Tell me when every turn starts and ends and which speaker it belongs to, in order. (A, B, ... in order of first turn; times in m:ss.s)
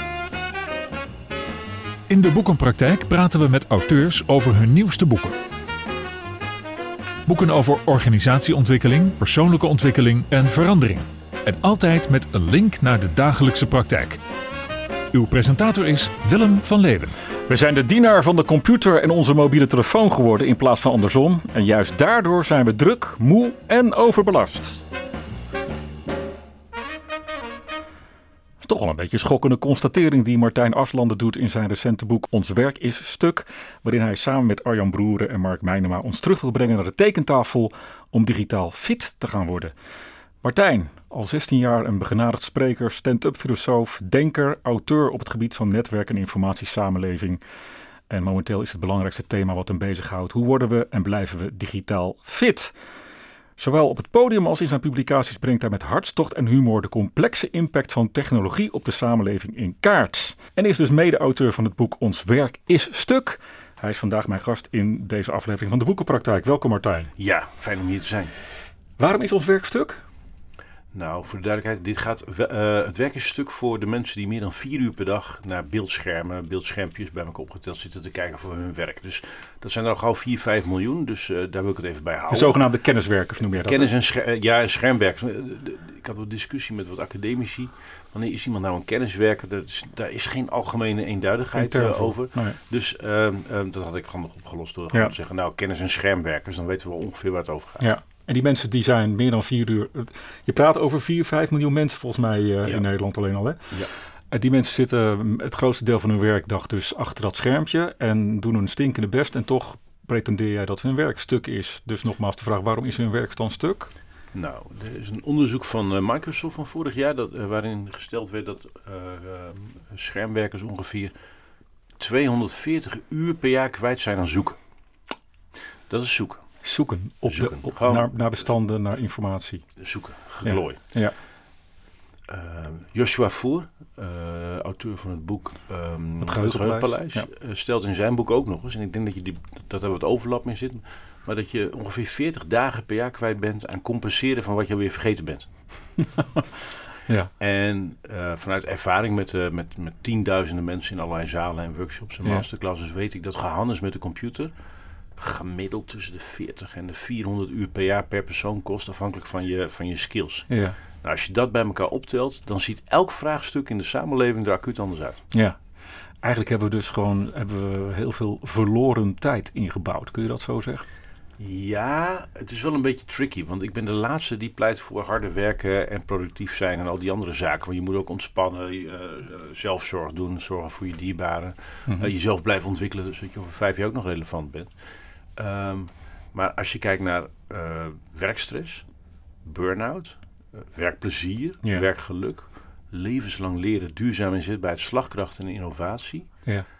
0:02.1-0:05.4 A
0:07.2-0:14.2 A
0:15.1-0:17.1 A
0:17.5-0:24.8 B
0:28.6-0:39.7 B
0:40.4-0:47.4 B
0:48.1-0:52.7 B
0:53.6-1:07.1 B
1:07.2-1:08.3 C
1:09.0-1:10.0 B
1:10.9-1:22.6 C
1:22.3-1:23.9 B
1:23.5-1:37.9 C
1:31.5-1:32.6 B
1:37.8-1:53.9 B
1:54.3-2:01.1 C
2:02.0-2:04.6 C
2:05.9-2:06.4 C
2:06.6-2:09.7 B
2:07.3-2:08.1 C
2:09.8-2:10.8 C
2:10.4-2:11.2 B
2:12.3-2:25.5 C
2:16.2-2:17.3 B
2:26.2-2:26.4 B
2:27.4-2:34.5 C
2:35.2-2:45.2 C
2:40.5-2:40.8 B
2:45.3-2:45.6 B
2:46.2-2:50.8 B
2:51.4-3:04.7 C
3:01.9-3:02.1 B
3:05.4-3:08.8 C
3:09.4-3:16.3 C